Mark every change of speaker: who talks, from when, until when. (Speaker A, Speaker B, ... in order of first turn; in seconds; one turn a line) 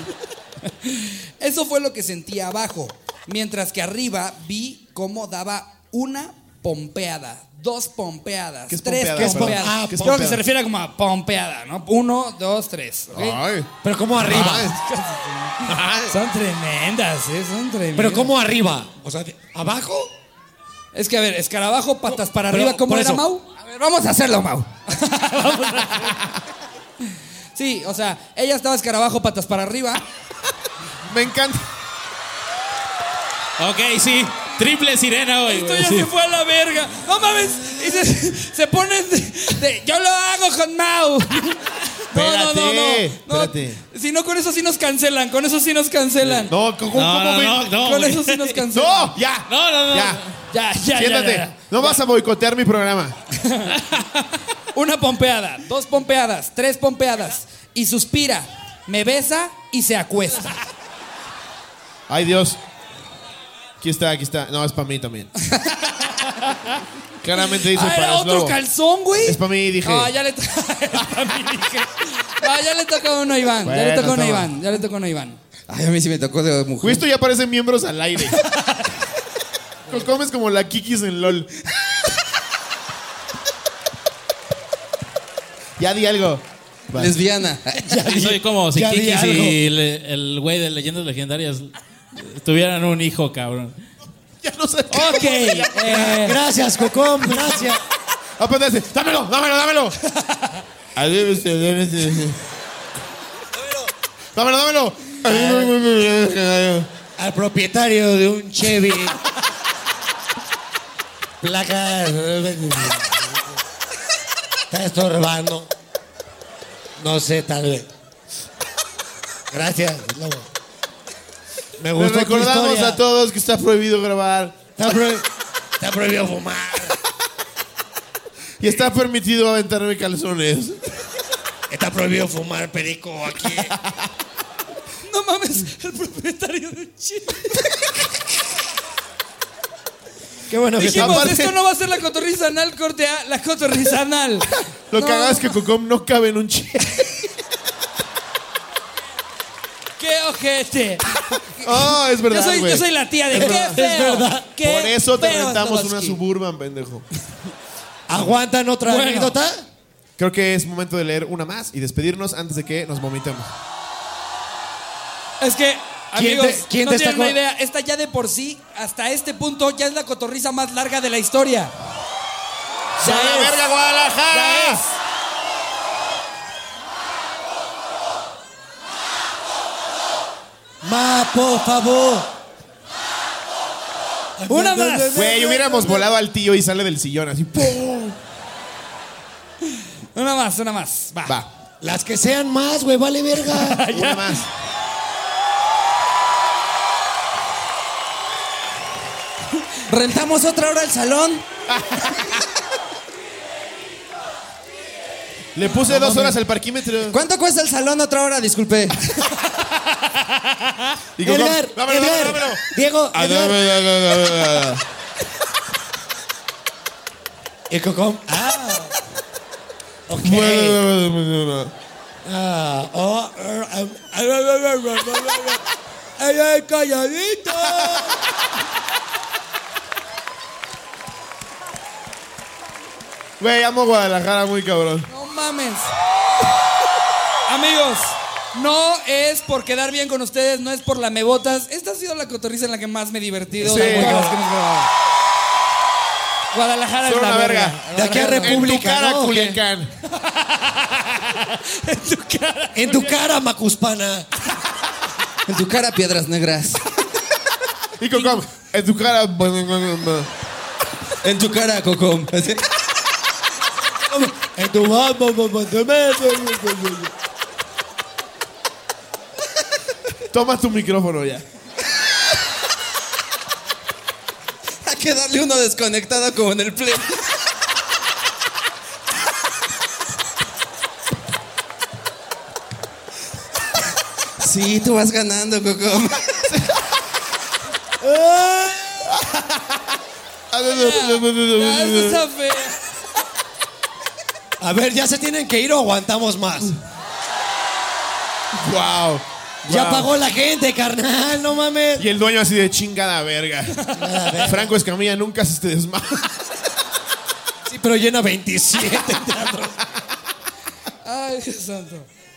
Speaker A: 0.8-13.4
Speaker B: 8.7-10.4
Speaker C: 9.2-10.0
Speaker B: 13.1-14.8
Speaker C: 13.8-14.7
Speaker A: 14.2-18.3
Speaker B: 15.6-16.2
Speaker C: 17.9-20.1
Speaker A: 20.9-23.4
Speaker C: 22.5-23.2
Speaker D: 23.6-24.7
Speaker A: 24.9-26.3
Speaker A: 27.5-30.0
Speaker B: 31.1-31.6
Speaker E: 33.6-36.1
Speaker A: 35.5-46.5
Speaker B: 42.1-43.8
Speaker B: 46.2-47.7
Speaker E: 46.9-48.6
Speaker A: 47.8-49.1
Speaker B: 48.7-50.2
Speaker E: 49.5-50.4
Speaker A: 50.5-52.0
Speaker B: 50.9-53.2
Speaker A: 53.4-53.8
Speaker A: 54.7-60.6
Speaker B: 62.1-62.6
Speaker B: 63.8-65.3
Speaker A: 65.5-66.7
Speaker B: 67.2-68.6
Speaker A: 67.6-75.4
Speaker B: 69.2-70.1
Speaker B: 73.6-74.5
Speaker D: 75.7-77.0
Speaker B: 76.8-78.4
Speaker A: 78.3-78.9
Speaker B: 79.9-82.0
Speaker B: 85.8-87.1
Speaker D: 86.9-88.4
Speaker C: 87.9-89.6
Speaker E: 88.0-93.8
Speaker B: 94.4-96.1
Speaker A: 94.9-96.4
Speaker C: 95.8-97.8
Speaker B: 98.4-100.0
Speaker A: 100.2-100.6
Speaker B: 100.9-102.4
Speaker C: 103.6-103.9
Speaker B: 104.3-106.9
Speaker C: 105.2-105.7
Speaker C: 107.2-109.2
Speaker C: 111.4-113.6
Speaker C: 114.7-115.7
Speaker C: 117.0-117.9
Speaker C: 119.5-120.5
Speaker B: 121.8-124.7
Speaker C: 121.8-123.0
Speaker C: 124.8-125.3
Speaker C: 125.8-127.0
Speaker B: 128.6-130.8
Speaker C: 131.7-133.8
Speaker B: 133.7-134.1
Speaker A: 135.1-137.6
Speaker C: 140.5-141.4
Speaker A: 140.8-145.4
Speaker B: 140.8-141.6
Speaker B: 144.9-147.3
Speaker A: 150.0-156.2
Speaker B: 151.6-153.8
Speaker C: 153.3-154.5
Speaker B: 154.6-157.0
Speaker C: 158.1-159.6
Speaker A: 158.8-159.3
Speaker B: 160.2-163.5
Speaker A: 165.4-171.7
Speaker C: 166.1-167.4
Speaker B: 173.0-174.8
Speaker A: 173.0-173.6
Speaker A: 174.3-175.0
Speaker C: 180.8-182.3
Speaker C: 184.4-185.9
Speaker A: 184.5-186.0
Speaker B: 185.1-188.2
Speaker A: 190.1-191.4
Speaker C: 191.8-193.9
Speaker A: 193.5-194.5
Speaker B: 193.9-194.5
Speaker D: 199.9-201.4
Speaker B: 201.7-202.5
Speaker B: 205.5-207.2
Speaker D: 205.9-206.3
Speaker D: 207.1-209.0
Speaker B: 211.2-214.8
Speaker C: 211.2-213.6
Speaker C: 217.7-219.0
Speaker C: 220.1-220.8
Speaker B: 220.2-221.7
Speaker C: 222.2-225.6
Speaker C: 226.2-228.2
Speaker B: 227.7-228.2
Speaker B: 233.4-235.1
Speaker A: 235.1-235.9
Speaker A: 237.5-244.9
Speaker C: 243.6-244.4
Speaker B: 243.6-244.2
Speaker A: 246.5-248.6
Speaker B: 247.0-247.9
Speaker C: 247.9-249.6
Speaker D: 247.9-248.4
Speaker B: 248.4-249.9
Speaker A: 250.1-253.2
Speaker C: 252.7-254.3
Speaker D: 255.5-256.8
Speaker B: 258.0-260.3
Speaker D: 261.2-262.6
Speaker C: 264.0-267.1
Speaker B: 270.3-271.4
Speaker D: 274.8-277.3
Speaker D: 284.4-286.4
Speaker C: 288.0-289.1
Speaker B: 289.1-289.9
Speaker B: 290.5-292.2
Speaker A: 290.7-292.8
Speaker C: 294.6-296.8
Speaker B: 298.5-300.2
Speaker C: 299.6-302.0
Speaker B: 302.0-303.8
Speaker A: 303.8-304.5
Speaker C: 303.9-304.7
Speaker B: 304.4-306.4
Speaker C: 307.7-309.8
Speaker A: 311.0-312.1